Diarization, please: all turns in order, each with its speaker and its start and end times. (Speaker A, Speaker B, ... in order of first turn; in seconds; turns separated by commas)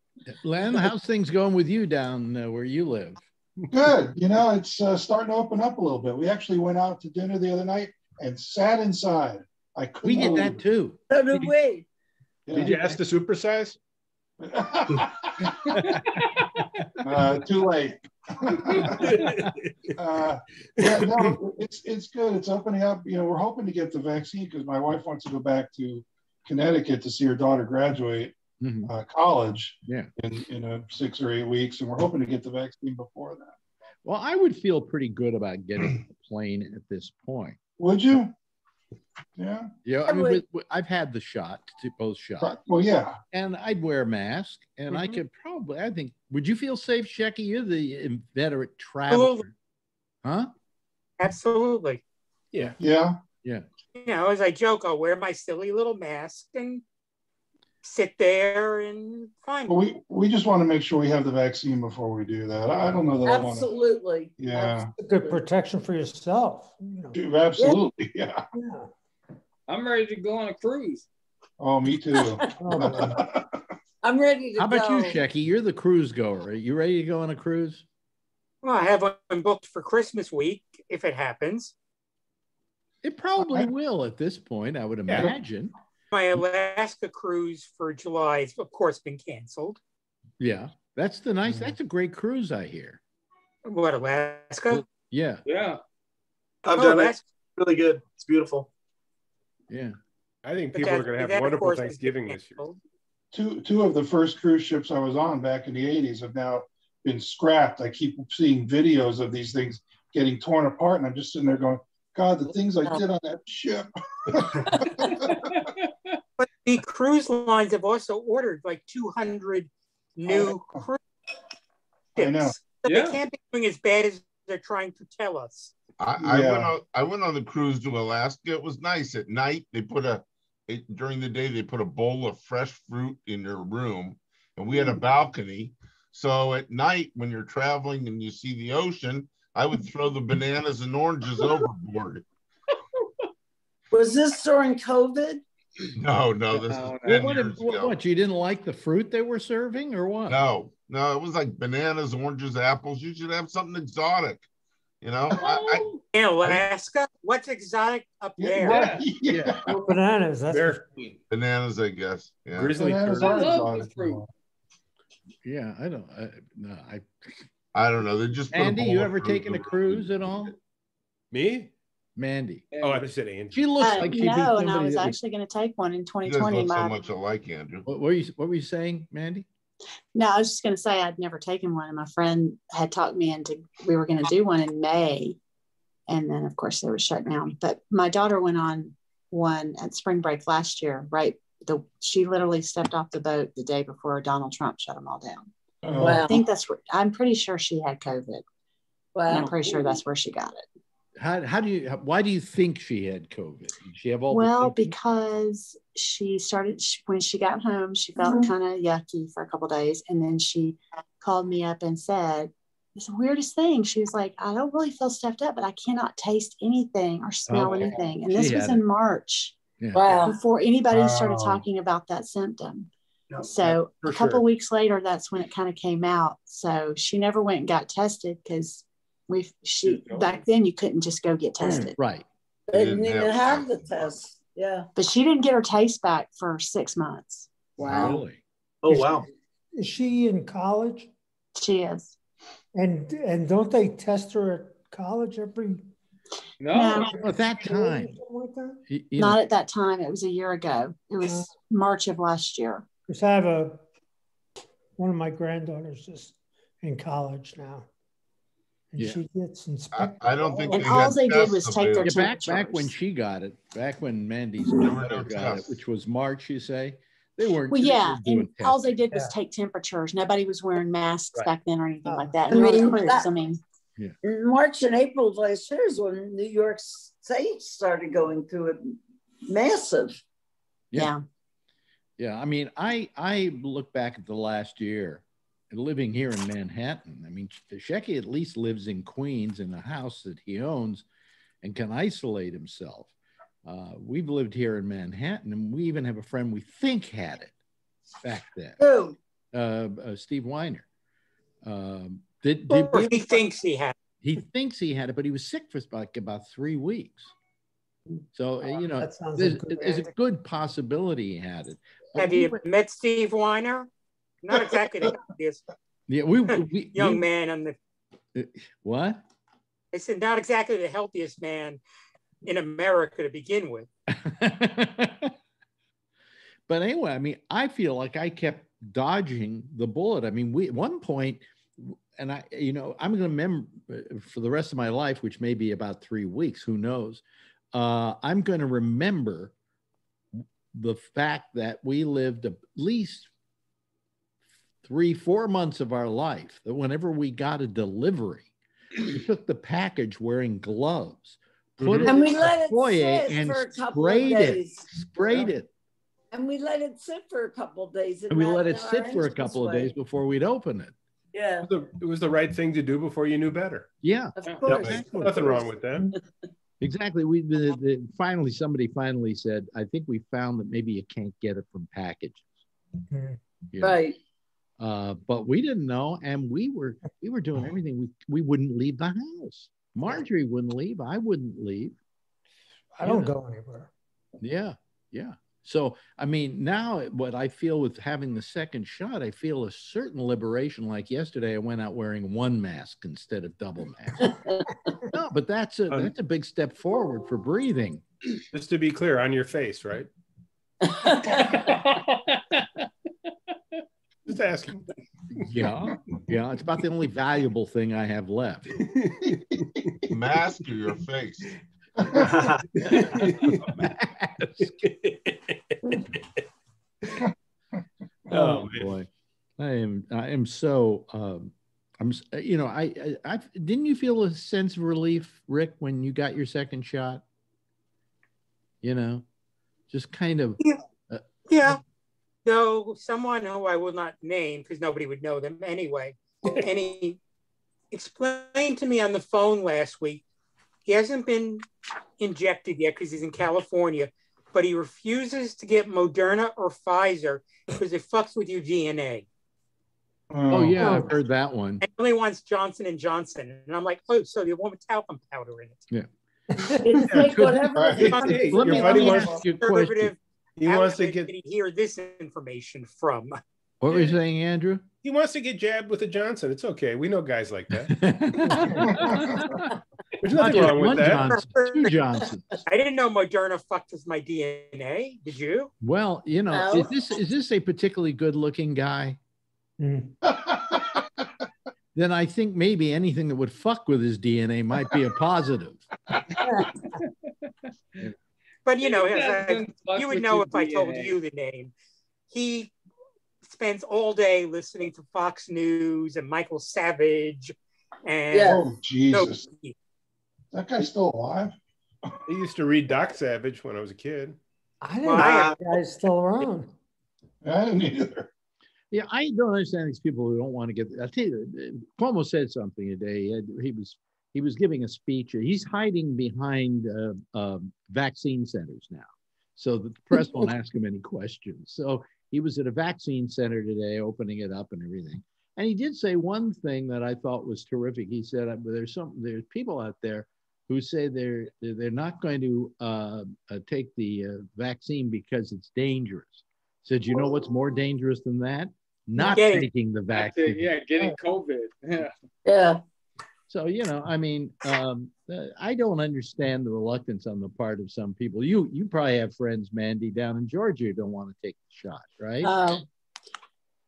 Speaker A: 0.3-3.2, Speaker B: 3.7-10.6, Speaker A: 10.0-11.0, Speaker C: 11.1-11.9, Speaker B: 12.5-12.9, Speaker D: 12.6-13.8, Speaker B: 14.4-15.5, Speaker B: 17.0-19.2, Speaker D: 18.9-19.9, Speaker B: 20.0-33.5, Speaker A: 28.6-28.9, Speaker A: 29.9-30.1, Speaker A: 34.0-37.6, Speaker B: 37.8-38.3, Speaker B: 39.4-39.7, Speaker A: 39.9-42.6, Speaker C: 40.1-40.4, Speaker B: 42.4-43.2, Speaker A: 43.3-49.5, Speaker D: 44.9-45.2, Speaker E: 49.1-49.4, Speaker A: 50.2-50.5, Speaker E: 51.2-52.0, Speaker B: 52.8-53.2, Speaker E: 54.0-56.8, Speaker E: 57.8-59.8, Speaker B: 59.7-63.7, Speaker C: 63.2-64.9, Speaker B: 64.4-64.9, Speaker F: 65.0-67.2, Speaker B: 67.2-68.4, Speaker C: 67.6-67.8, Speaker F: 68.5-68.9, Speaker G: 69.7-71.1, Speaker B: 71.6-73.5, Speaker C: 72.2-72.5, Speaker F: 72.6-73.2, Speaker C: 74.0-75.2, Speaker A: 74.6-77.8, Speaker E: 78.6-81.7, Speaker A: 83.0-85.7, Speaker B: 83.4-83.7, Speaker E: 86.1-89.8, Speaker A: 90.4-93.0, Speaker E: 93.7-94.8, Speaker A: 94.7-95.4, Speaker G: 95.5-95.8, Speaker H: 96.7-98.7, Speaker E: 96.8-97.2, Speaker A: 99.7-100.0, Speaker D: 100.4-102.6, Speaker E: 100.7-102.8, Speaker B: 103.3-114.6, Speaker G: 115.5-116.2, Speaker E: 116.4-121.0, Speaker B: 120.3-120.8, Speaker B: 122.2-122.5, Speaker E: 122.2-125.7, Speaker G: 122.8-123.2, Speaker I: 126.0-142.2, Speaker B: 126.2-126.7, Speaker C: 143.9-145.4, Speaker I: 146.0-147.9, Speaker G: 146.5-147.6, Speaker A: 147.0-150.4, Speaker I: 150.3-154.4, Speaker I: 155.0-155.8, Speaker G: 155.4-156.0, Speaker E: 156.1-158.8, Speaker B: 158.4-159.8, Speaker G: 158.6-159.1, Speaker A: 159.3-159.6, Speaker F: 159.7-160.8, Speaker D: 160.5-160.8, Speaker I: 161.3-162.8, Speaker D: 162.6-163.5, Speaker B: 162.7-164.3, Speaker G: 163.1-164.2, Speaker A: 165.4-167.4, Speaker I: 167.8-170.3, Speaker A: 168.5-170.5, Speaker D: 171.3-171.7, Speaker A: 172.2-172.7, Speaker G: 172.7-173.1, Speaker D: 172.8-173.6, Speaker A: 173.5-175.2, Speaker J: 173.8-177.0, Speaker I: 176.2-177.8, Speaker A: 177.9-179.5, Speaker J: 180.2-185.4, Speaker J: 186.1-195.5, Speaker B: 195.8-196.3, Speaker C: 195.9-196.4, Speaker J: 196.0-198.4, Speaker C: 199.2-200.0, Speaker J: 199.3-200.7, Speaker A: 201.2-204.9, Speaker J: 204.3-219.6, Speaker C: 208.2-208.5, Speaker A: 217.5-218.8, Speaker C: 219.9-220.4, Speaker J: 220.1-222.9, Speaker B: 220.9-221.7, Speaker J: 223.4-231.9, Speaker A: 223.7-224.4, Speaker A: 232.0-232.3, Speaker C: 232.7-234.9, Speaker I: 232.7-234.1, Speaker J: 235.0-237.5, Speaker I: 237.8-238.2, Speaker A: 237.8-238.4, Speaker C: 237.8-238.2, Speaker H: 238.8-239.2, Speaker A: 238.9-239.2, Speaker F: 239.8-241.1, Speaker J: 241.6-242.2, Speaker F: 242.8-245.9, Speaker G: 246.6-247.1, Speaker J: 246.7-247.1, Speaker A: 247.0-248.2, Speaker F: 247.6-248.8, Speaker A: 248.9-249.4, Speaker J: 249.2-252.8, Speaker F: 251.2-251.5, Speaker F: 253.1-253.8, Speaker F: 255.0-257.9, Speaker F: 258.9-261.0, Speaker I: 259.9-262.3, Speaker J: 260.6-262.9, Speaker A: 262.0-268.9, Speaker I: 264.8-265.8, Speaker J: 267.7-273.6, Speaker F: 272.1-272.5, Speaker C: 272.5-273.3, Speaker C: 274.2-280.2, Speaker J: 280.9-281.2, Speaker A: 282.2-291.1, Speaker A: 291.6-293.1, Speaker A: 293.6-297.6, Speaker A: 298.2-298.8, Speaker C: 298.8-299.2, Speaker A: 299.5-300.9, Speaker A: 301.6-303.4, Speaker E: 302.7-303.9, Speaker A: 304.2-307.3, Speaker A: 308.3-312.6, Speaker F: 308.9-310.1, Speaker E: 312.2-313.9, Speaker E: 314.4-315.6, Speaker A: 316.1-317.2, Speaker E: 316.5-317.8, Speaker A: 318.3-319.2, Speaker E: 319.9-321.8, Speaker E: 322.4-323.9, Speaker A: 324.1-325.3, Speaker A: 326.7-337.2, Speaker A: 337.7-339.5, Speaker A: 340.4-343.3, Speaker A: 344.8-355.7, Speaker D: 351.8-352.2, Speaker C: 352.1-354.9, Speaker C: 356.3-359.9, Speaker A: 358.3-360.9, Speaker C: 361.3-361.7, Speaker D: 361.7-363.9, Speaker A: 364.0-365.7, Speaker C: 364.5-366.2, Speaker D: 364.7-366.1, Speaker A: 366.8-372.5, Speaker F: 373.1-373.4, Speaker A: 373.7-374.0, Speaker C: 373.8-374.2, Speaker A: 374.8-382.0, Speaker F: 382.9-383.9, Speaker A: 383.0-383.3, Speaker A: 384.4-394.4, Speaker C: 394.2-394.7, Speaker A: 395.1-398.0, Speaker D: 398.5-400.1, Speaker C: 400.8-401.6, Speaker G: 401.6-402.6, Speaker D: 404.3-404.9, Speaker A: 405.4-408.9, Speaker D: 408.9-409.4, Speaker I: 410.1-411.5, Speaker B: 412.0-412.3, Speaker H: 412.1-412.6, Speaker D: 412.8-413.7, Speaker A: 413.0-414.8, Speaker D: 414.6-415.8, Speaker A: 418.3-419.1, Speaker D: 418.3-418.9, Speaker A: 419.6-427.2, Speaker A: 428.8-429.2, Speaker A: 429.9-431.8, Speaker E: 431.5-431.8, Speaker E: 432.4-437.2, Speaker E: 437.9-440.2, Speaker E: 440.9-441.6, Speaker E: 442.2-449.3, Speaker B: 450.3-451.1, Speaker A: 450.5-451.8, Speaker F: 450.8-451.1, Speaker E: 451.8-455.9, Speaker A: 455.9-460.1, Speaker C: 456.8-459.4, Speaker B: 457.8-458.1, Speaker D: 458.1-459.4, Speaker E: 459.0-463.4, Speaker D: 460.6-461.3, Speaker A: 463.8-464.8, Speaker D: 465.0-468.0, Speaker A: 467.9-469.5, Speaker B: 468.9-469.4, Speaker D: 470.2-471.2, Speaker A: 470.3-472.6, Speaker E: 471.1-471.9, Speaker E: 472.7-475.7, Speaker A: 475.8-479.2, Speaker C: 476.5-476.9, Speaker F: 479.8-480.1, Speaker B: 480.3-481.0, Speaker A: 481.9-485.9, Speaker F: 486.4-486.7, Speaker E: 488.6-491.7, Speaker G: 488.8-491.1, Speaker E: 492.3-492.7, Speaker E: 493.4-499.8, Speaker C: 498.3-498.7, Speaker B: 498.5-499.4, Speaker B: 500.5-501.5, Speaker D: 502.3-504.4, Speaker F: 504.8-506.7, Speaker E: 505.0-505.6, Speaker H: 505.2-505.6, Speaker B: 507.4-508.3, Speaker A: 508.9-541.1, Speaker E: 539.3-539.7, Speaker G: 540.1-542.1, Speaker C: 542.5-542.8, Speaker A: 543.5-552.5, Speaker C: 552.4-552.8